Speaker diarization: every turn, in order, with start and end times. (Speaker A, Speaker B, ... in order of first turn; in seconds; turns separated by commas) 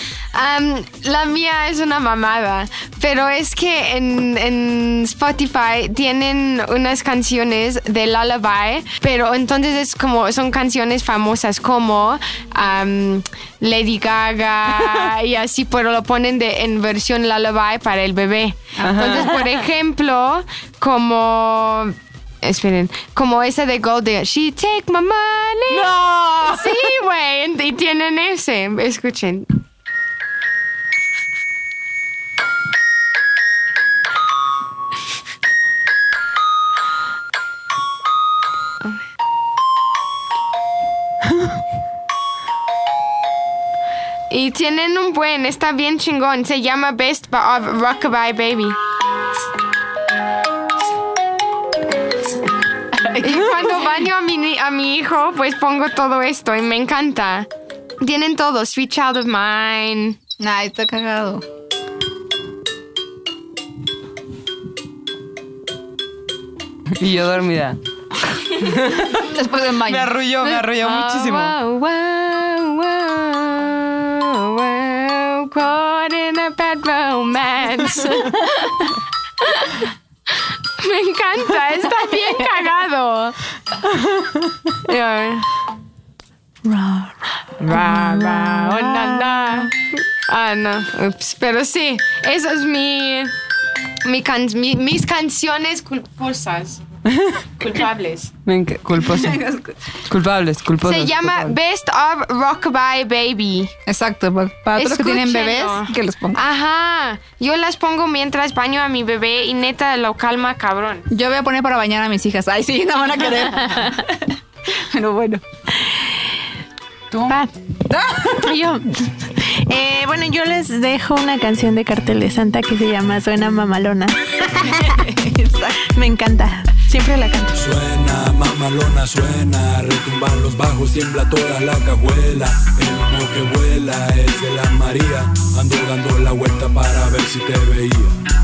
Speaker A: 0.3-25.9, Speaker B: 18.8-19.4, Speaker C: 18.8-19.3, Speaker B: 25.7-26.7, Speaker A: 26.5-29.5, Speaker A: 44.3-48.8, Speaker B: 52.9-53.9, Speaker A: 53.2-57.5, Speaker A: 58.0-60.2, Speaker B: 60.4-61.4, Speaker C: 67.0-67.8, Speaker C: 68.6-69.3, Speaker B: 69.1-70.2, Speaker C: 69.8-71.5, Speaker A: 70.4-79.9, Speaker A: 80.8-83.3, Speaker A: 84.8-85.5, Speaker D: 86.6-89.7, Speaker A: 87.6-93.3, Speaker A: 94.0-96.8, Speaker C: 97.1-97.4, Speaker A: 97.6-98.3, Speaker C: 98.5-99.4, Speaker B: 99.0-99.8, Speaker C: 100.1-101.5, Speaker A: 100.8-103.7, Speaker B: 103.8-106.4, Speaker A: 104.8-111.1, Speaker B: 111.1-115.4, Speaker C: 117.1-118.5, Speaker D: 118.4-125.0, Speaker B: 124.6-125.9, Speaker D: 125.8-127.5, Speaker E: 127.5-138.1